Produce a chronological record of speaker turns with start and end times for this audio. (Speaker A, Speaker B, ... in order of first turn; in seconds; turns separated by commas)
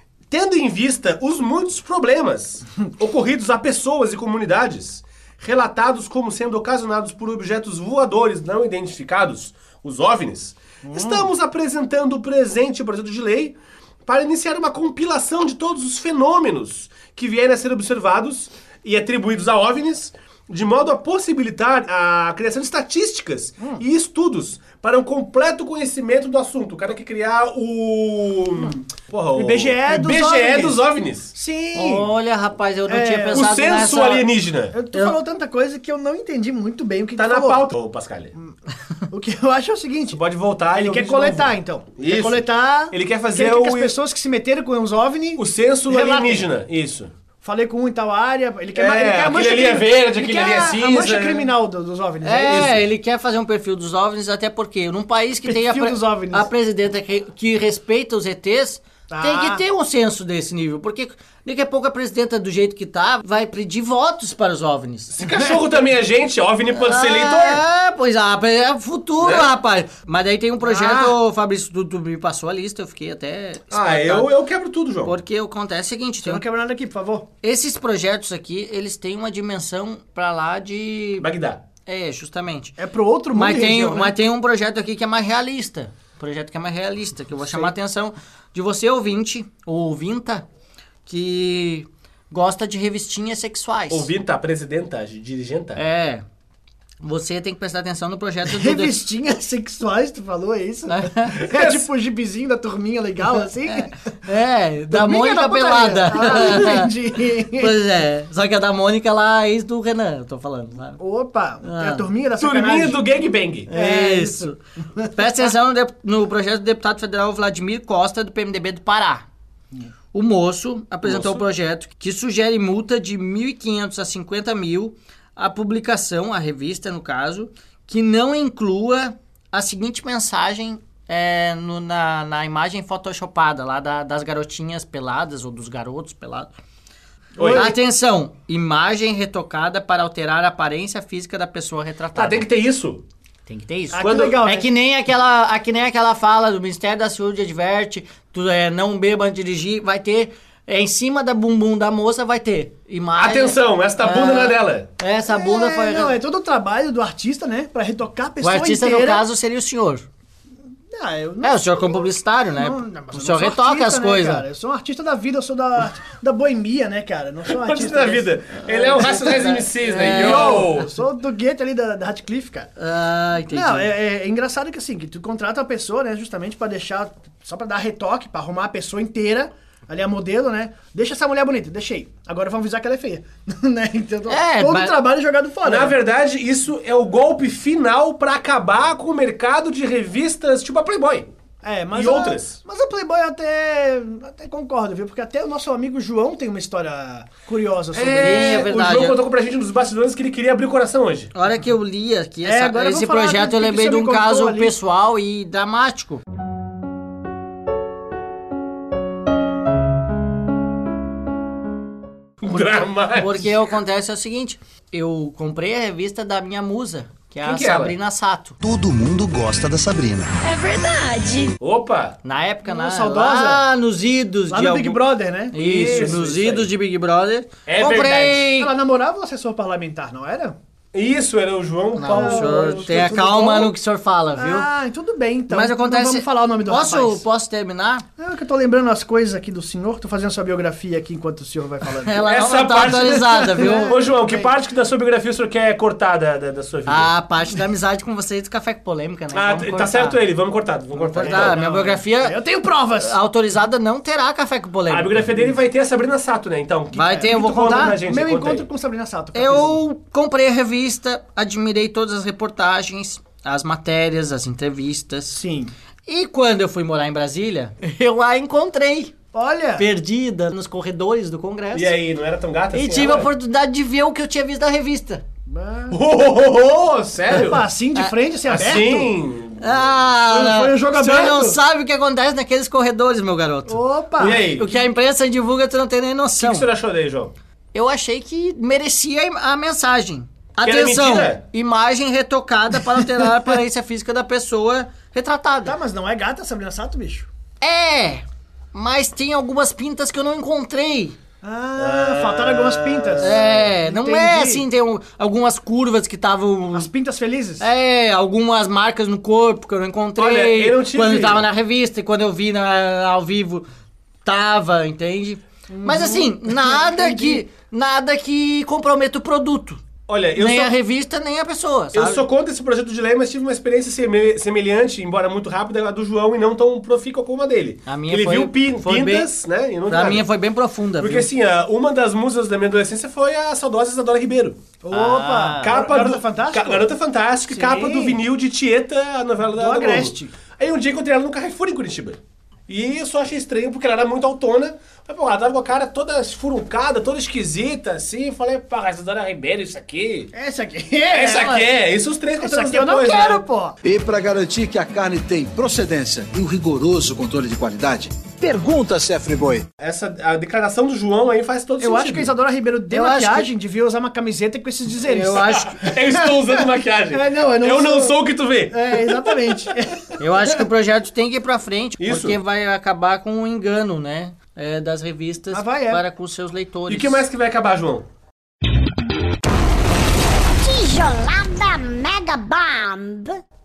Speaker A: 0.3-31.3, Speaker B: 10.8-11.3, Speaker B: 29.4-32.1, Speaker C: 31.8-34.3, Speaker B: 32.9-33.6, Speaker A: 33.3-34.8, Speaker B: 34.7-37.7, Speaker A: 37.2-38.3, Speaker B: 39.1-40.2, Speaker A: 40.1-44.0, Speaker B: 40.7-46.5, Speaker A: 45.4-47.1, Speaker B: 47.4-52.8, Speaker A: 48.8-51.5, Speaker C: 52.2-65.2, Speaker B: 55.4-56.5, Speaker B: 59.1-59.6, Speaker A: 65.2-67.6, Speaker B: 65.3-65.6, Speaker C: 66.8-74.3, Speaker A: 69.2-69.5, Speaker B: 70.6-71.2, Speaker A: 73.7-75.1, Speaker C: 75.0-76.4, Speaker B: 76.2-77.3, Speaker C: 77.4-81.3, Speaker A: 81.2-81.6, Speaker C: 81.9-82.8, Speaker B: 82.8-84.2, Speaker C: 83.3-90.5, Speaker B: 87.4-87.7, Speaker C: 91.1-94.1, Speaker A: 93.9-95.8, Speaker C: 95.8-96.2, Speaker C: 97.0-99.0, Speaker B: 98.5-104.3, Speaker C: 100.9-101.4, Speaker A: 101.5-101.9, Speaker C: 103.6-106.9, Speaker B: 104.9-107.8, Speaker A: 106.2-106.6, Speaker C: 107.5-111.0, Speaker B: 111.0-113.0, Speaker C: 111.6-112.1, Speaker A: 112.4-113.7, Speaker C: 113.7-114.6, Speaker B: 113.7-115.5, Speaker C: 115.1-119.2, Speaker C: 120.1-136.5, Speaker A: 121.0-121.4, Speaker A: 137.4-137.7, Speaker B: 137.4-137.8, Speaker C: 137.5-142.5, Speaker A: 142.1-143.0, Speaker C: 143.5-156.2, Speaker B: 143.9-144.7, Speaker A: 144.0-144.4, Speaker A: 153.2-154.9, Speaker B: 155.3-159.3, Speaker C: 158.4-160.1, Speaker B: 160.9-168.5, Speaker C: 161.4-164.4, Speaker A: 167.5-170.9, Speaker C: 168.7-170.7, Speaker B: 170.1-172.7, Speaker C: 172.8-173.9, Speaker B: 173.5-186.0, Speaker C: 184.3-185.0, Speaker A: 185.6-191.3, Speaker B: 191.6-198.6, Speaker A: 191.9-192.6, Speaker A: 197.9-201.3, Speaker C: 198.2-199.2, Speaker C: 201.3-206.2, Speaker B: 202.4-204.8, Speaker A: 212.4-213.4, Speaker C: 213.2-218.6, Speaker A: 217.4-217.9, Speaker D: 218.6-220.3, Speaker E: 220.4-221.5, Speaker A: 221.6-222.2, Speaker C: 222.2-228.7, Speaker B: 222.7-223.7, Speaker B: 224.5-226.2, Speaker A: 225.6-226.7, Speaker A: 227.7-228.5, Speaker B: 228.6-230.6, Speaker A: 230.9-233.3, Speaker C: 232.0-234.7, Speaker B: 232.1-233.7, Speaker B: 234.3-237.2, Speaker C: 235.5-238.0, Speaker B: 238.2-242.2, Speaker C: 242.0-243.9, Speaker A: 242.3-247.1, Speaker B: 243.6-244.5, Speaker C: 246.9-250.2, Speaker A: 249.3-251.6, Speaker C: 250.9-252.4, Speaker B: 251.2-253.2, Speaker C: 252.9-255.2, Speaker A: 254.9-258.7, Speaker C: 256.9-258.0, Speaker B: 257.0-259.8, Speaker C: 259.3-265.4, Speaker B: 265.4-265.7, Speaker C: 266.1-269.1, Speaker B: 269.3-269.9, Speaker C: 269.8-271.9, Speaker A: 271.7-273.3, Speaker C: 272.7-275.2, Speaker B: 275.5-276.0, Speaker A: 275.9-277.6, Speaker B: 277.3-279.1, Speaker A: 278.5-279.9, Speaker C: 279.6-286.7, Speaker B: 280.3-281.6, Speaker A: 281.0-281.5, Speaker B: 283.7-284.4, Speaker A: 284.2-284.7, Speaker A: 286.4-287.3, Speaker C: 287.7-295.8, Speaker A: 290.6-291.4, Speaker B: 295.6-297.3, Speaker C: 297.6-301.2, Speaker B: 301.4-304.7, Speaker A: 301.8-303.6, Speaker C: 303.2-306.9, Speaker B: 306.7-307.7, Speaker C: 307.6-313.6, Speaker A: 310.2-311.5, Speaker C: 314.2-319.8, Speaker B: 315.7-317.4, Speaker A: 320.1-320.8, Speaker C: 320.4-322.2, Speaker A: 321.9-330.3, Speaker C: 327.9-329.3, Speaker C: 329.9-331.3, Speaker A: 331.0-334.6, Speaker B: 334.8-336.9, Speaker C: 334.9-335.9, Speaker A: 335.6-350.3, Speaker B: 337.5-338.2, Speaker B: 339.5-340.4, Speaker B: 350.3-351.7, Speaker A: 351.1-353.4, Speaker B: 352.4-353.8, Speaker D: 353.8-359.6, Speaker A: 359.8-362.3, Speaker B: 361.8-370.2, Speaker C: 362.9-363.5, Speaker C: 365.1-365.7, Speaker A: 365.4-369.7, Speaker C: 370.2-377.2, Speaker A: 372.0-372.4, Speaker B: 375.5-376.0, Speaker A: 376.9-378.1, Speaker E: 380.6-383.4